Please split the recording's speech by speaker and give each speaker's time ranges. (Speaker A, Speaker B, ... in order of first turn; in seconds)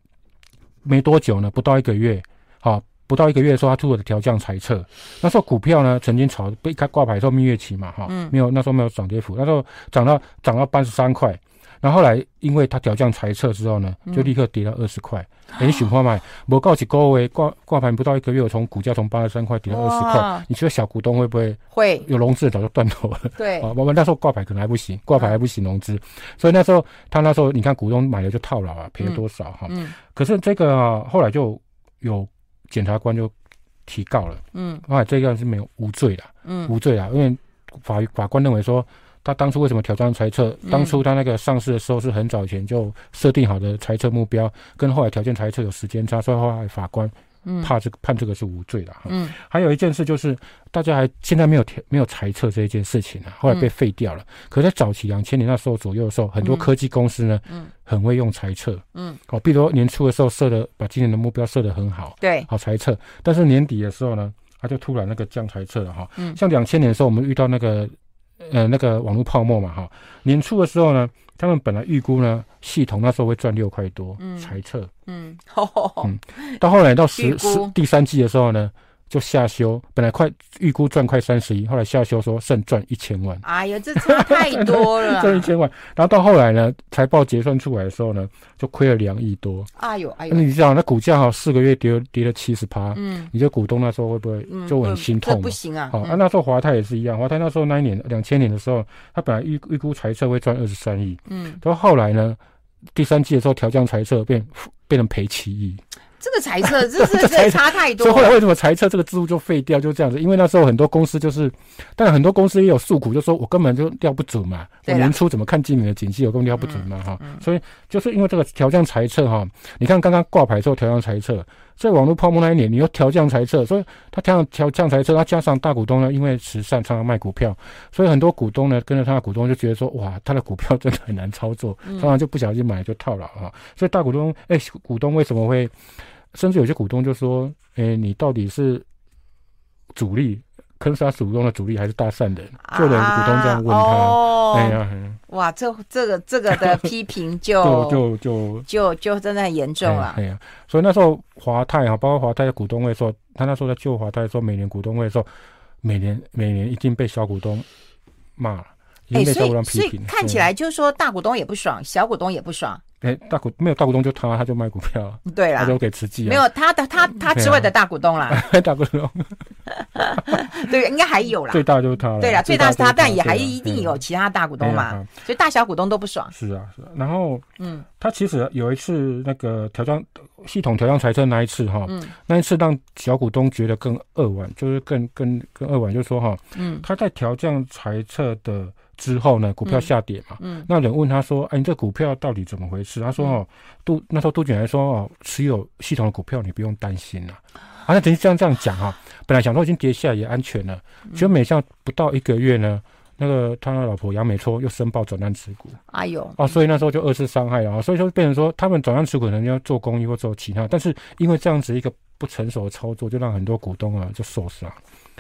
Speaker A: 0.8-33.3, 33.9-74.9, 76.0-83.4, 84.0-89.7, 90.3-102.4, 103.0-105.8, 106.6-135.7, 136.3-138.9, 139.9-145.2, 146.5-146.9, 147.6-148.7, 149.8-155.3, 155.8-157.7, 158.4-160.5, 163.0-166.5, 167.1-167.7, 168.3-169.4, 170.1-170.4, 171.5-174.0, 174.6-175.1, 176.3-177.4, 178.0-205.8, 206.4-214.8
Speaker B: 8.1-8.3, 14.1-14.3, 19.7-20.4, 21.7-22.1, 23.4-23.7, 29.0-29.9, 34.5-34.8, 36.5-36.8, 40.6-41.0, 47.5-47.7, 49.1-49.3, 56.4-56.7, 59.0-59.2, 62.2-62.5, 74.2-74.5, 75.1-76.6, 77.1-77.7, 83.4-85.5, 89.8-90.5, 92.9-93.3, 94.5-96.2, 101.3-101.6, 106.2-108.4, 114.9-115.2, 116.6-117.4, 131.8-132.1, 142.6-148.1, 148.7-150.2, 159.1-162.8, 165.3-168.4, 169.7-171.6, 172.2-176.3, 177.6-177.8, 181.9-182.1, 186.6-186.9, 190.4-190.7, 205.9-206.4